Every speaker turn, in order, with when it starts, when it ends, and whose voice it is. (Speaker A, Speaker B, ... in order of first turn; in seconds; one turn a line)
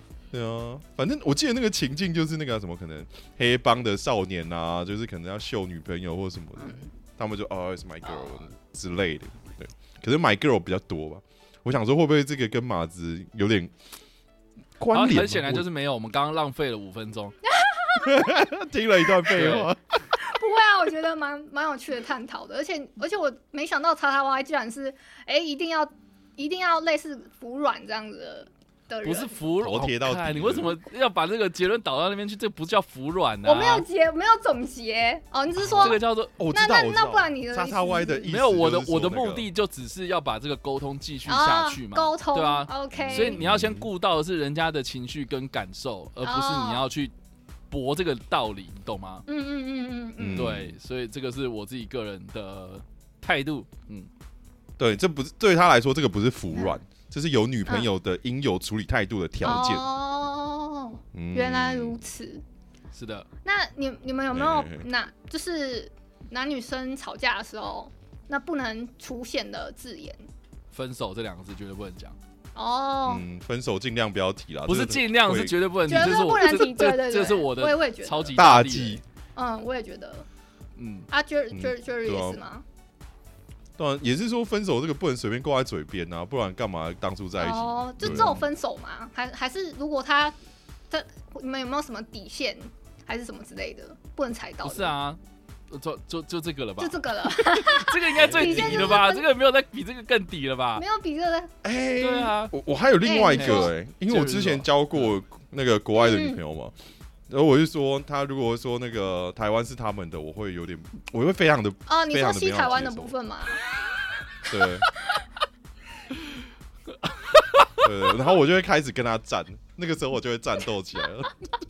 Speaker A: 0.3-13.7
Speaker B: 6.6-6.9
Speaker B: 8.1-8.4
Speaker A: 14.8-15.6
Speaker C: 14.9-17.4
Speaker B: 17.5-18.3
Speaker A: 18.0-19.8
Speaker C: 19.3-19.7
Speaker B: 20.2-29.4
Speaker C: 29.0-33.9
Speaker A: 29.6-30.8
Speaker B: 33.4-36.0
Speaker A: 35.7-39.5
Speaker C: 35.8-36.3
Speaker B: 36.5-38.3
Speaker C: 38.3-47.1
Speaker B: 41.2-43.4
Speaker A: 42.9-43.9
Speaker B: 46.2-46.8
Speaker C: 47.7-49.2
Speaker B: 49.3-50.5
Speaker A: 50.2-50.8
Speaker C: 50.4-54.1
Speaker A: 54.8-59.9
Speaker B: 59.4-62.4
Speaker A: 61.1-62.0
Speaker C: 62.9-63.3
Speaker B: 63.4-70.2
Speaker A: 64.3-64.8
Speaker C: 70.7-72.2
Speaker B: 72.5-73.2
Speaker A: 73.0-76.0
Speaker C: 74.7-79.0
Speaker B: 75.9-78.4
Speaker A: 78.3-79.0
Speaker B: 79.3-80.2
Speaker C: 80.8-81.1
Speaker B: 81.1-82.6
Speaker A: 81.5-82.4
Speaker A: 83.8-88.4
Speaker B: 87.4-90.3
Speaker C: 88.0-88.4
Speaker B: 90.9-94.9
Speaker C: 94.6-95.2
Speaker C: 95.7-100.8
Speaker B: 96.8-99.3
Speaker A: 98.2-99.0
Speaker B: 100.8-101.5
Speaker A: 101.6-106.8
Speaker C: 102.0-102.5
Speaker B: 103.0-103.7
Speaker C: 103.3-105.1
Speaker B: 106.0-106.4
Speaker A: 107.3-113.1
Speaker B: 111.9-113.6
Speaker A: 114.5-114.8
Speaker C: 117.3-117.7
Speaker A: 117.8-121.3